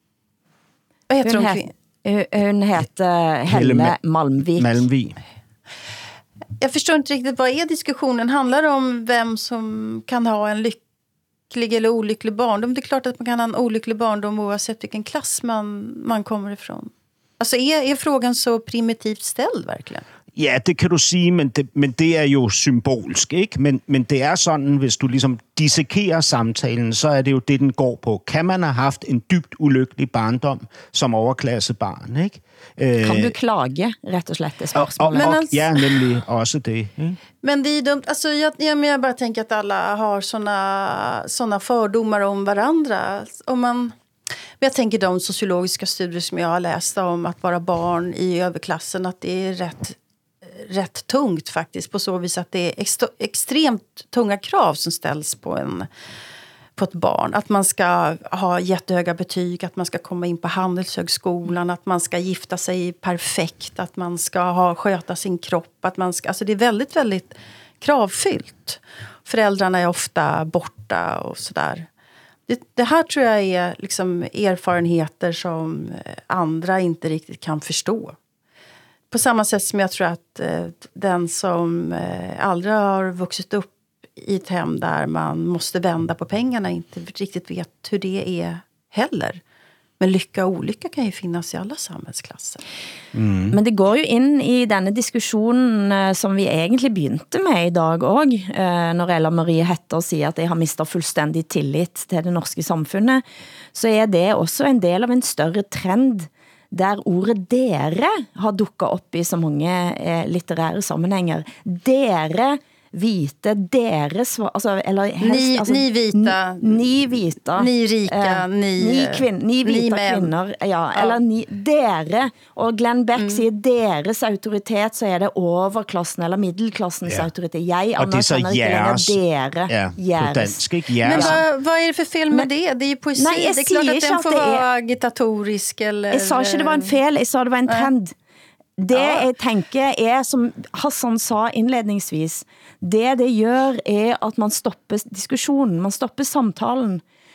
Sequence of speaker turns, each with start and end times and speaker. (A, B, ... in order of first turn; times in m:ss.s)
0:01.1-0:01.7 A
0:01.2-0:04.9 B
0:03.5-0:04.0 C
0:04.6-0:05.2 C
0:06.6-0:10.8 A
0:11.5-0:20.0 A
0:20.4-0:33.3 C
0:33.0-0:35.4 B
0:34.8-0:37.2 C
0:35.2-0:35.7 A
0:37.4-0:43.9 A
0:44.6-0:50.0 A
0:50.6-0:55.9 A
0:56.8-1:11.9 A
1:12.5-1:18.2 A
1:19.1-1:29.4 A
1:30.0-1:32.6 A
1:33.1-1:33.6 C
1:33.5-1:43.2 B
1:43.7-2:11.4 B
1:55.2-2:00.3 A
2:00.9-2:01.2 A
2:03.2-2:03.4 A
2:08.0-2:11.4 C
2:11.1-2:16.9 A
2:13.2-2:14.6 B
2:16.1-2:18.1 B
2:18.8-2:27.0 B
2:18.9-2:19.3 A